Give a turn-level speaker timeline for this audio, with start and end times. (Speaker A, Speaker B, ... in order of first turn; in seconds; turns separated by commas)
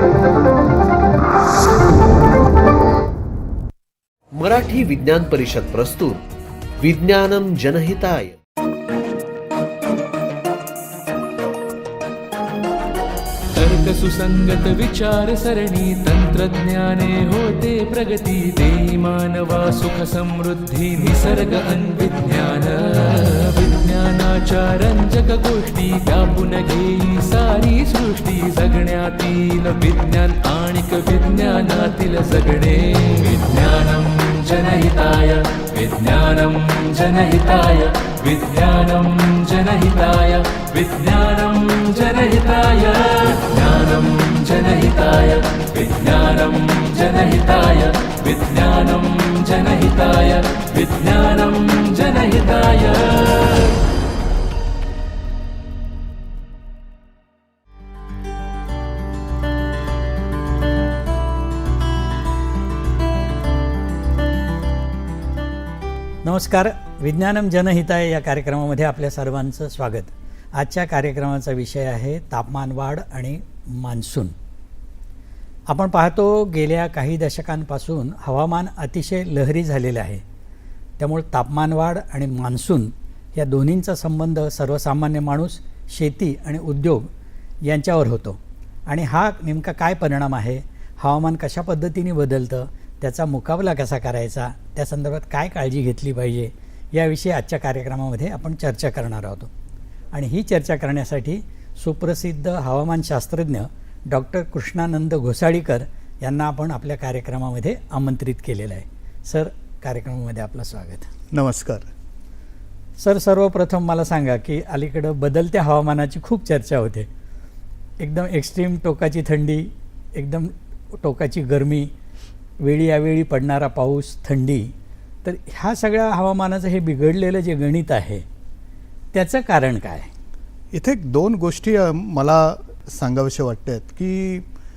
Speaker A: 4.4-6.2, Speaker A: 6.8-8.4, Speaker B: 13.6-53.7, Speaker C: 66.2-74.3, Speaker C: 75.7-80.2, Speaker C: 81.0-87.1, Speaker C: 87.7-99.5, Speaker C: 100.1-111.1, Speaker D: 111.3-111.9, Speaker C: 113.0-117.1, Speaker C: 118.0-121.9, Speaker C: 122.6-124.7, Speaker C: 125.2-128.2, Speaker C: 129.1-130.1, Speaker D: 130.7-134.5